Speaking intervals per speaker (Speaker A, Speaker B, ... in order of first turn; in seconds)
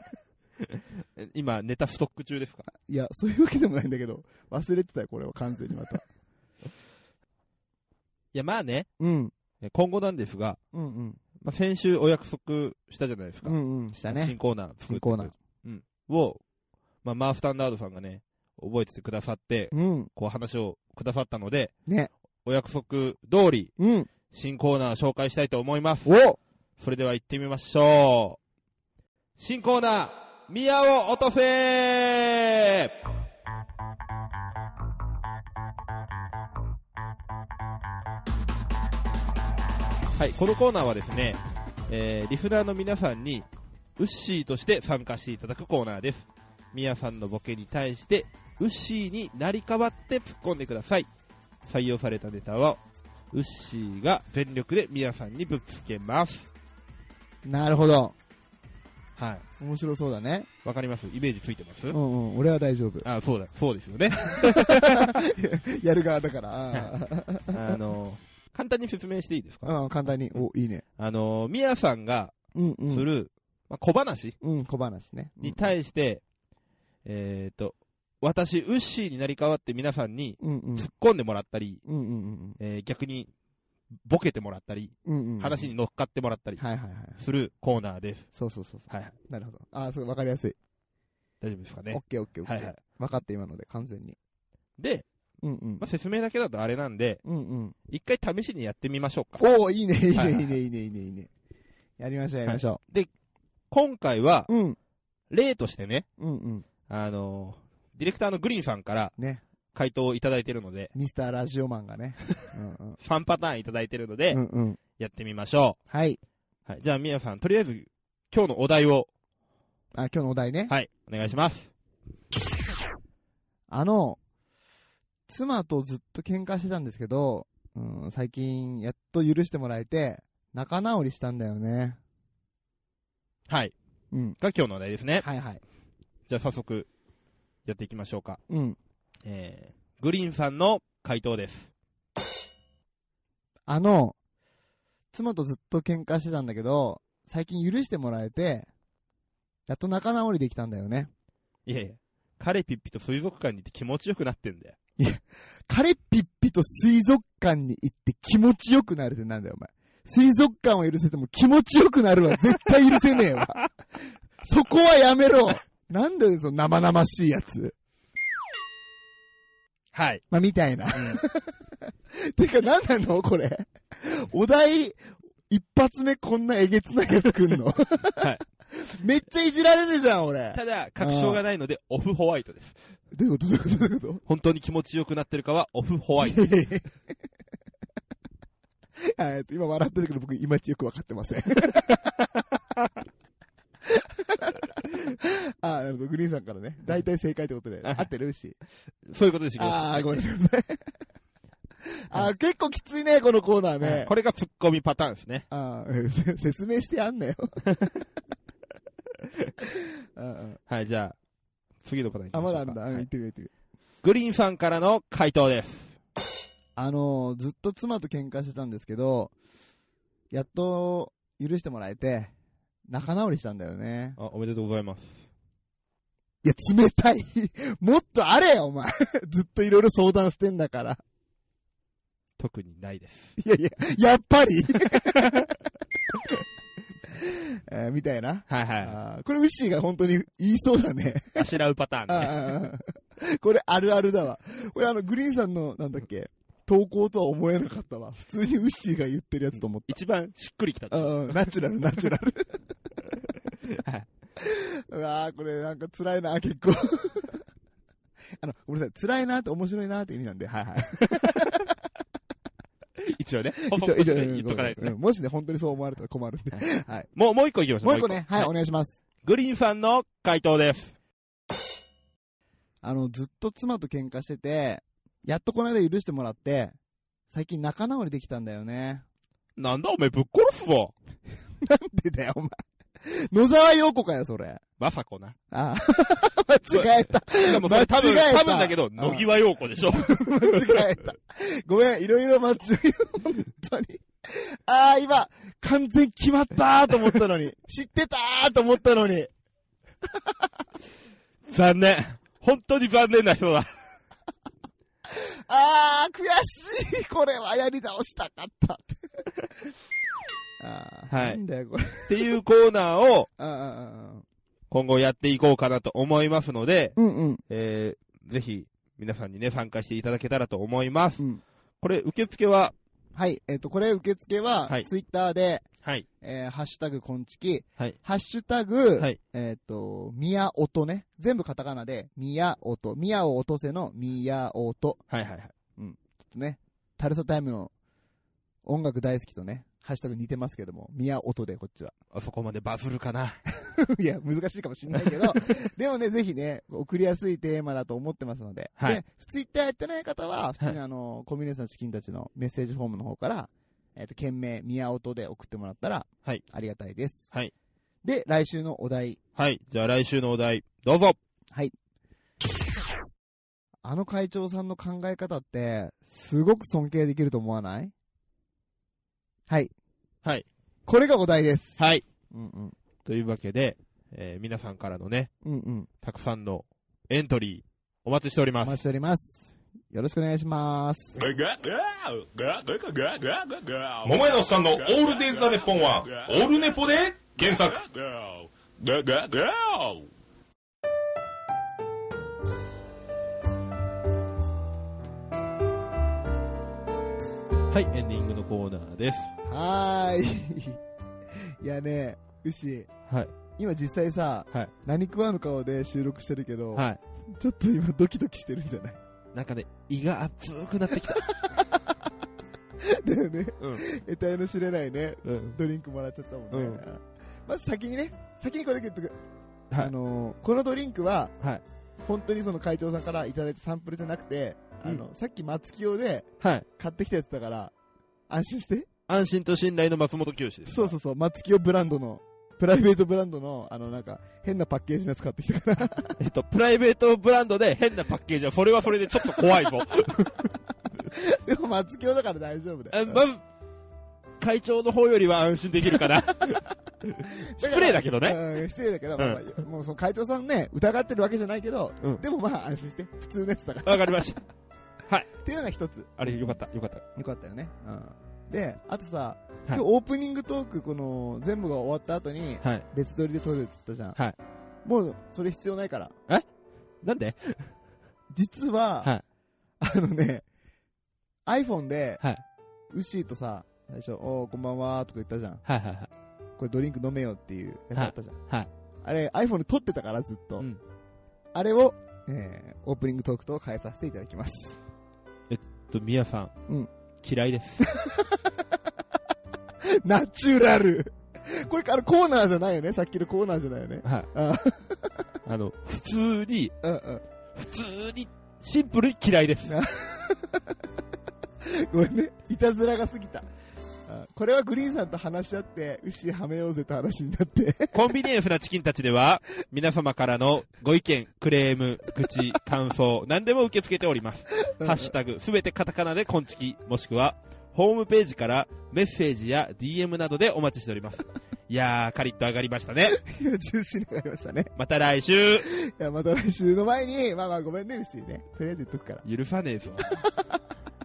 Speaker A: 0.6-2.6, 8.3-8.9, 9.6-10.6, 11.4-13.6, 14.1-16.4, 17.0-21.7, 22.4-23.7, 24.3-26.1, 26.8-28.4, 29.4-33.0, 40.1-51.1, 51.6-52.8, 53.3-56.5, 59.1-59.5, 60.6-62.0, 63.0-65.2, 67.5-69.7, 71.0-72.3, 72.9-74.4, 75.4-76.2, 77.0-81.8, 82.6-83.3, 84.0-86.6, 87.2-88.3, 88.9-89.1, 91.4-92.8, 94.8-95.0, 95.8-97.2, 97.9-99.4, 100.1-100.5, 102.5-103.1, 103.7-104.5, 105.3-106.1, 106.9-109.1, 109.7-110.9, 113.0-114.4, 115.0-115.8, 116.7-119.1, 120.7-121.7, 133.5-133.7, 134.4-135.3, 136.3-136.9, 137.6-138.4, 139.2-141.7, 151.7-154.8, 169.9-170.2, 170.9-171.2, 180.5-182.8, 184.2-186.6, 197.8-198.1, 199.1-200.1, 203.8-205.5, 207.7-207.9, 210.7-211.2, 211.8-213.1, 214.0-215.9, 224.2-225.2, 232.4-233.3, 234.9-235.5, 238.5-239.0, 241.4-242.5, 249.6-251.6, 253.6-254.1, 261.1-261.6, 263.0-265.0, 266.5-268.5, 269.2-270.9, 279.6-280.9, 284.8-285.4, 286.7-290.9, 301.5-303.7, 311.1-311.4, 312.1-313.3, 314.7-317.0, 317.5-321.2, 321.8-322.7, 335.1-335.5, 342.1-343.4, 345.0-345.4, 348.8-349.0, 359.4-361.2, 371.8-372.0, 373.1-375.3, 376.0-378.8, 397.7-399.3, 403.1-403.3, 406.8-407.0, 409.3-411.2, 413.6-413.9, 415.2-415.6, 416.5-416.8, 426.4-426.6, 429.1-431.0, 436.2-440.6, 442.9-443.4, 444.4-448.4, 449.2-449.4, 453.9-454.4, 456.2-457.0, 467.0-467.7, 475.6-476.1, 477.9-478.7, 485.5-486.6, 487.2-488.0, 494.0-494.3, 495.4-496.8, 497.6-499.8, 507.9-523.2, 524.8-525.7, 529.2-530.1
Speaker B: 2.8-6.0, 9.0-9.3, 10.7-11.2, 13.4-15.3, 19.7-20.1, 21.9-22.1, 23.8-24.1, 26.1-26.4, 57.5-58.1, 59.6-60.5, 61.9-63.1, 64.2-67.8, 69.6-70.8, 72.5-73.1, 74.4-75.7, 80.4-80.9, 81.9-82.6, 85.1-85.7, 86.6-87.2, 88.3-90.6, 91.9-94.2, 95.4-95.8, 97.2-97.8, 99.4-101.3, 102.0-102.8, 104.5-104.8, 106.2-106.7, 109.2-109.4, 110.9-113.0, 114.3-114.8, 115.9-116.2, 120.0-120.7, 123.7-124.2, 125.3-132.0, 134.1-134.4, 135.2-135.6, 138.5-138.8, 143.7-144.2, 145.1-148.7, 149.7-151.1, 155.0-163.7, 164.4-167.8, 170.3-171.6, 172.1-175.0, 175.5-181.4, 183.1-184.2, 186.2-186.9, 189.1-192.1, 193.9-198.6, 199.6-200.8, 202.1-204.1, 205.5-207.6, 210.2-210.6, 212.3-213.5, 216.8-219.3, 220.3-222.3, 222.9-224.2, 226.4-231.0, 233.4-235.5, 237.1-241.5, 242.1-249.9, 250.9-252.6, 254.4-257.4, 258.4-261.7, 263.6-267.1, 267.8-269.0, 272.8-276.8, 277.3-279.0, 281.6-284.6, 285.5-299.3, 305.1-309.2, 310.6-312.3, 313.4-314.2, 317.0-317.4, 323.1-325.6, 326.2-335.0, 335.8-337.7, 338.6-341.9, 343.6-357.3, 358.0-359.2, 363.8-367.9, 370.9-372.8, 375.4-375.9, 378.6-381.2, 399.5-400.8, 401.4-402.9, 403.6-409.0, 411.1-411.8, 412.8-419.2, 419.8-421.4, 422.1-427.7, 428.3-428.9, 430.7-436.1, 441.1-443.2, 447.6-454.3, 455.3-456.5, 457.1-464.2, 464.9-466.1, 468.3-469.1, 469.8-470.4, 471.5-472.2, 472.9-475.6, 476.6-478.4, 479.0-480.7, 481.5-484.8, 487.8-488.4, 489.8-495.1, 496.8-497.2, 499.7-500.7, 501.6-503.5, 504.1-508.1, 514.7-515.1, 523.2-524.7, 525.6-529.2
Speaker C: 381.1-390.1